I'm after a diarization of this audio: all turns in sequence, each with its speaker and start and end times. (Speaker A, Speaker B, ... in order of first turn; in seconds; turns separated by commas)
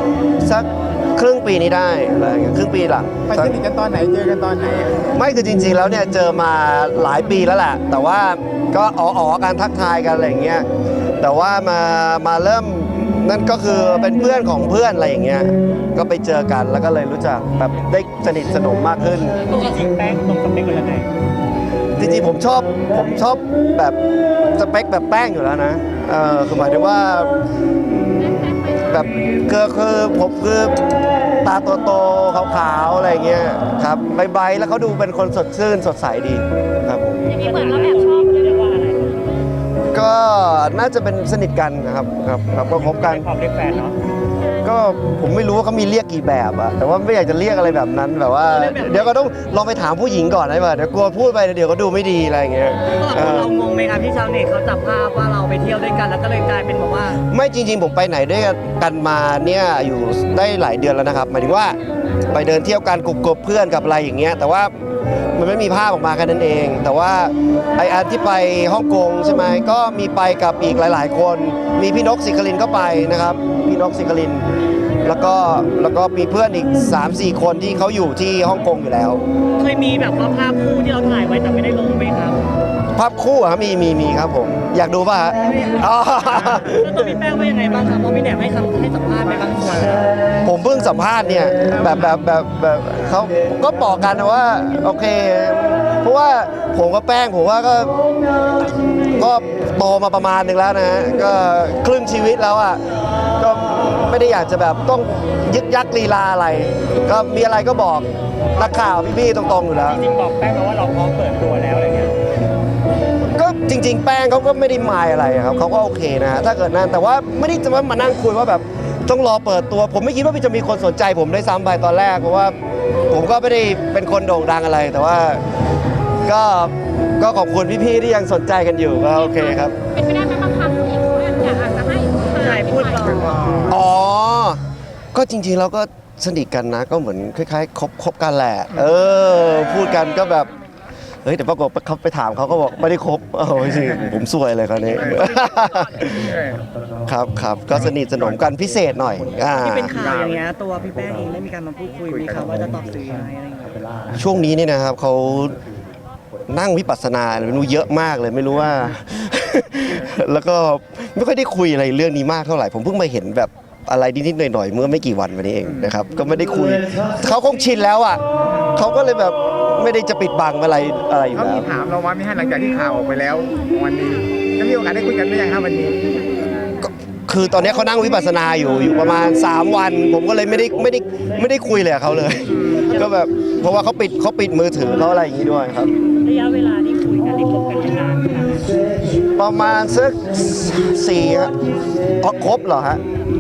Speaker A: 0.4-3.6, Speaker B: 3.3-5.2, Speaker A: 5.1-10.7, Speaker A: 11.2-19.4, Speaker C: 19.5-21.1, Speaker A: 22.0-24.0, Speaker A: 24.6-27.3, Speaker D: 28.4-28.7, Speaker A: 28.7-30.8, Speaker A: 31.4-37.3, Speaker C: 37.3-39.3, Speaker D: 37.3-38.5, Speaker A: 39.9-43.3, Speaker C: 42.7-44.0, Speaker A: 44.6-53.5, Speaker C: 48.5-49.2, Speaker C: 53.0-57.2, Speaker A: 57.3-61.8, Speaker A: 62.3-64.7, Speaker A: 65.3-74.4, Speaker A: 75.0-79.2, Speaker C: 79.6-82.4, Speaker A: 83.0-87.2, Speaker C: 85.4-90.1, Speaker A: 90.4-97.9, Speaker B: 91.8-92.1, Speaker A: 99.2-102.8, Speaker A: 103.4-110.0, Speaker C: 109.8-112.1, Speaker A: 113.3-122.5, Speaker A: 123.1-125.4, Speaker A: 126.3-129.7, Speaker D: 129.8-133.2, Speaker C: 132.3-133.7, Speaker B: 133.1-133.8, Speaker A: 133.7-134.6, Speaker A: 135.1-140.5, Speaker A: 141.2-146.3, Speaker B: 144.9-145.5, Speaker C: 145.1-145.8, Speaker B: 146.1-146.6, Speaker A: 147.1-149.9, Speaker B: 147.7-148.4, Speaker C: 149.5-153.8, Speaker B: 149.9-150.4, Speaker B: 152.1-152.7, Speaker A: 154.2-155.6, Speaker A: 156.5-168.2, Speaker B: 165.6-166.1, Speaker A: 168.8-171.7, Speaker B: 171.3-176.0, Speaker A: 176.8-185.9, Speaker C: 186.2-188.6, Speaker A: 189.4-191.5, Speaker A: 192.2-193.0